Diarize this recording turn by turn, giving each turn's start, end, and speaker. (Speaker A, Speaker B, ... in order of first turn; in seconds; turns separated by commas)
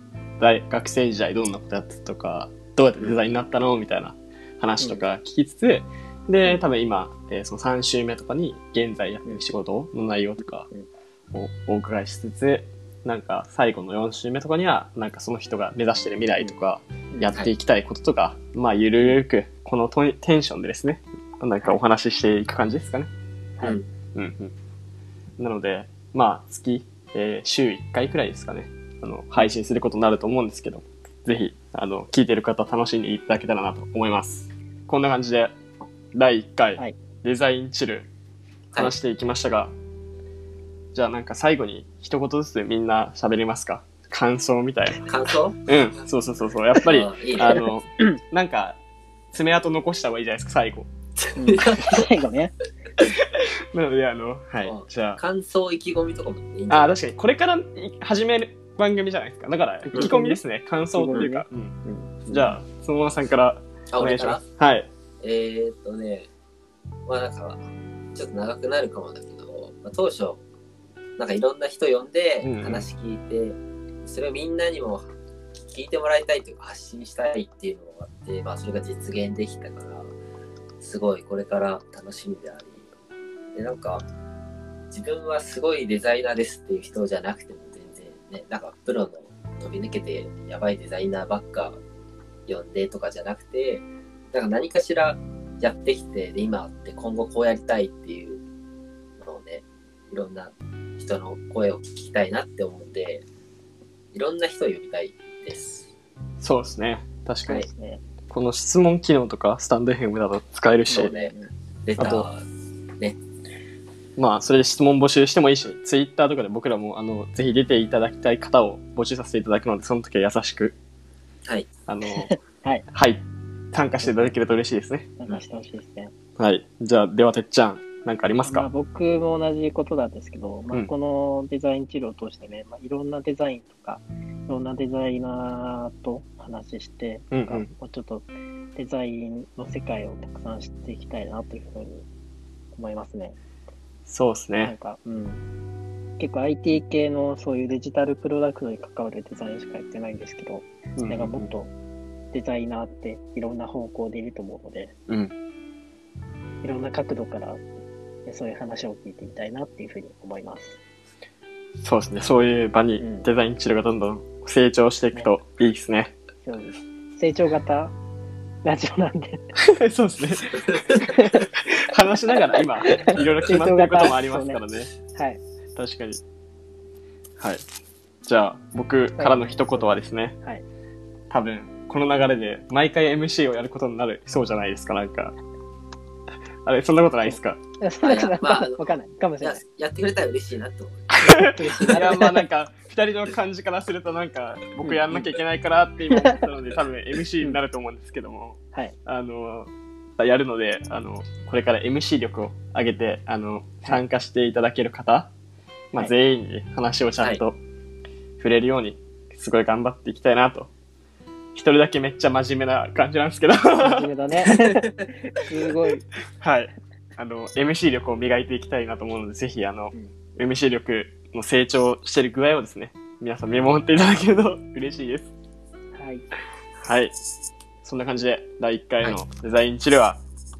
Speaker A: 0.4-10.7, Speaker B: 4.8-5.0, Speaker A: 11.3-23.1, Speaker A: 24.1-24.5, Speaker A: 25.4-35.6, Speaker A: 36.1-38.1, Speaker A: 38.7-39.7, Speaker A: 40.9-45.1, Speaker C: 45.0-45.7, Speaker A: 45.6-48.8, Speaker C: 46.8-47.6, Speaker B: 47.5-48.2, Speaker A: 49.3-50.9, Speaker C: 51.2-52.0, Speaker B: 51.4-52.5, Speaker A: 53.4-55.2, Speaker C: 54.6-56.9, Speaker A: 56.7-61.7, Speaker B: 59.9-60.4, Speaker B: 60.9-62.5, Speaker A: 62.3-64.9, Speaker C: 63.9-64.4, Speaker C: 65.2-66.3, Speaker C: 67.1-67.6, Speaker C: 68.1-70.4, Speaker C: 71.2-80.1, Speaker A: 72.4-72.9, Speaker C: 80.8-82.8, Speaker C: 83.5-84.0, Speaker C: 84.9-91.8, Speaker C: 92.5-98.4, Speaker C: 99.2-103.2, Speaker C: 104.1-105.8, Speaker A: 106.4-107.7, Speaker B: 107.5-108.0, Speaker A: 108.3-111.1, Speaker B: 110.9-111.5, Speaker C: 110.9-111.3, Speaker C: 111.8-112.4, Speaker A: 112.0-112.2, Speaker A: 114.2-120.8, Speaker A: 121.9-122.3, Speaker B: 122.1-122.8, Speaker A: 122.9-125.1, Speaker B: 124.0-124.3, Speaker B: 125.2-126.1, Speaker A: 126.4-128.7, Speaker B: 128.4-142.0, Speaker A: 137.3-137.7, Speaker B: 142.7-143.3, Speaker A: 144.1-144.7, Speaker B: 144.6-145.4, Speaker B: 146.2-151.7, Speaker A: 151.0-151.5, Speaker B: 152.3-154.9, Speaker A: 155.1-155.3, Speaker B: 156.6-157.6, Speaker B: 158.2-160.8, Speaker A: 161.8-166.1, Speaker B: 163.0-163.3, Speaker B: 166.4-167.9, Speaker B: 168.6-169.5, Speaker A: 169.6-174.9, Speaker B: 171.0-171.4, Speaker B: 172.8-174.6, Speaker B: 175.1-175.4, Speaker A: 175.8-176.2, Speaker A: 177.4-177.6, Speaker A: 178.2-180.3, Speaker B: 179.2-180.6, Speaker A: 181.3-185.3, Speaker A: 186.6-187.6, Speaker B: 187.2-189.6, Speaker C: 188.0-191.1, Speaker B: 191.2-192.4, Speaker A: 191.2-205.3, Speaker B: 194.8-195.3, Speaker B: 196.1-196.4, Speaker A: 205.9-207.6, Speaker A: 208.4-210.7, Speaker A: 211.5-214.6, Speaker B: 213.8-216.1, Speaker A: 216.4-225.3, Speaker B: 225.9-226.2, Speaker A: 226.8-227.1, Speaker A: 227.8-230.2